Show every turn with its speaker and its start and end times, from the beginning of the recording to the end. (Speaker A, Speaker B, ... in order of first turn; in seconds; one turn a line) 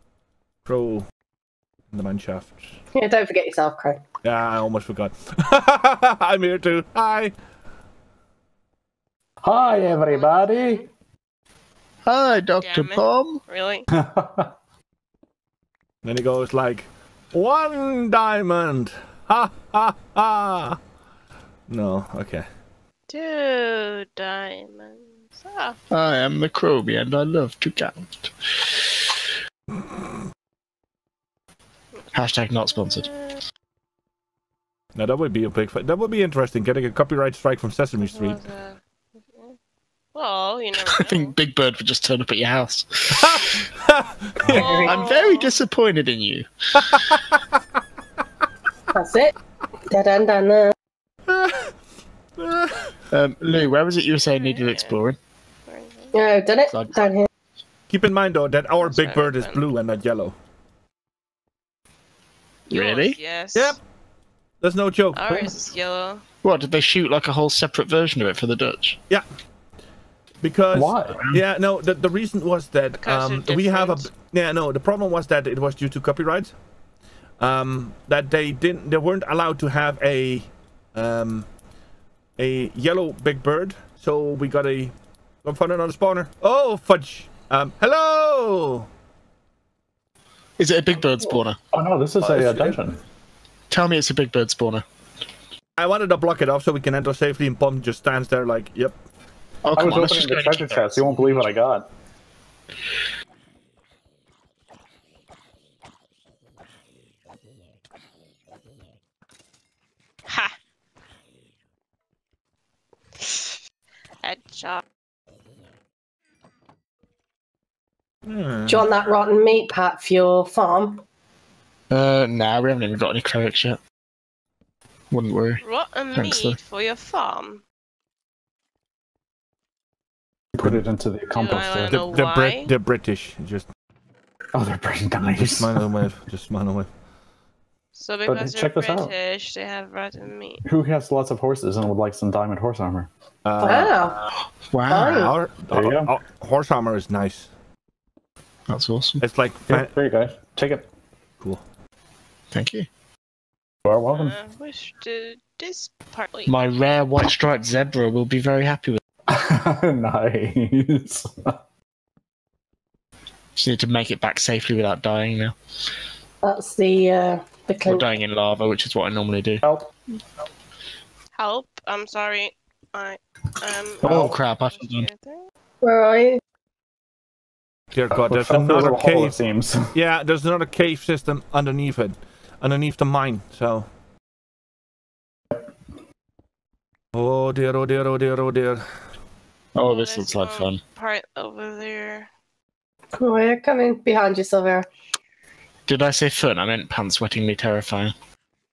Speaker A: 0.6-1.0
Speaker A: 1.9-2.8
Speaker B: 3.0-4.0
Speaker A: 4.2-7.3
Speaker C: 9.4-10.8
Speaker D: 9.5-10.9
Speaker E: 12.1-13.4
Speaker D: 12.6-13.9
Speaker C: 13.9-14.5
Speaker A: 16.0-20.8
Speaker A: 21.7-22.4
Speaker D: 23.1-25.8
Speaker E: 25.9-29.2
Speaker E: 32.1-33.1
Speaker D: 32.7-33.4
Speaker A: 35.0-38.4
Speaker D: 38.0-39.5
Speaker D: 40.1-41.4
Speaker E: 40.8-43.7
Speaker A: 43.2-44.6
Speaker B: 44.4-45.0
Speaker D: 44.5-45.5
Speaker C: 44.5-44.8
Speaker E: 44.5-47.2
Speaker A: 46.9-47.4
Speaker B: 48.9-49.3
Speaker B: 49.9-50.7
Speaker A: 51.3-51.7
Speaker A: 52.4-53.0
Speaker E: 53.1-55.1
Speaker D: 54.3-55.0
Speaker D: 55.7-56.1
Speaker B: 56.1-57.3
Speaker E: 56.7-57.0
Speaker A: 57.9-60.3
Speaker D: 58.8-59.6
Speaker D: 62.7-63.8
Speaker E: 62.7-63.2
Speaker A: 64.6-65.2
Speaker D: 65.1-66.2
Speaker E: 66.4-69.0
Speaker A: 70.4-76.5
Speaker C: 70.7-71.4
Speaker D: 73.0-74.1
Speaker A: 77.4-81.5
Speaker A: 82.4-88.9
Speaker E: 90.6-91.6
Speaker C: 91.7-93.0
Speaker A: 92.2-92.8
Speaker E: 93.7-94.8
Speaker A: 95.8-99.0
Speaker E: 99.6-101.5
Speaker C: 99.8-101.9
Speaker D: 110.3-110.6
Speaker D: 113.2-113.6
Speaker D: 114.2-114.8
Speaker A: 118.3-118.9
Speaker B: 118.7-121.0
Speaker E: 121.9-123.8
Speaker E: 125.1-125.6
Speaker D: 125.6-127.6
Speaker E: 126.2-126.6
Speaker C: 130.6-132.0
Speaker D: 131.3-132.7
Speaker A: 131.9-133.7
Speaker C: 134.5-135.9
Speaker A: 135.3-136.9
Speaker D: 137.9-140.6
Speaker C: 138.3-139.1
Speaker C: 140.6-143.1
Speaker A: 143.4-144.0
Speaker B: 143.6-144.2
Speaker E: 144.2-145.3
Speaker B: 144.9-145.3
Speaker A: 145.1-147.5
Speaker C: 145.7-146.1
Speaker E: 148.7-149.2
Speaker A: 149.2-149.9
Speaker C: 149.7-150.9
Speaker E: 152.5-152.9
Speaker C: 153.8-154.4
Speaker D: 154.1-156.6
Speaker E: 156.5-159.0
Speaker C: 159.3-161.6
Speaker E: 163.6-165.6
Speaker B: 166.4-168.1
Speaker E: 167.9-169.7
Speaker C: 169.6-169.9
Speaker D: 171.3-175.5
Speaker E: 174.0-175.1
Speaker C: 174.0-174.3
Speaker B: 175.8-176.4
Speaker A: 177.9-179.4
Speaker C: 178.1-179.9
Speaker A: 179.9-183.9
Speaker A: 187.1-188.9
Speaker E: 189.8-190.8
Speaker D: 189.8-192.3
Speaker B: 193.1-194.9
Speaker E: 195.9-198.1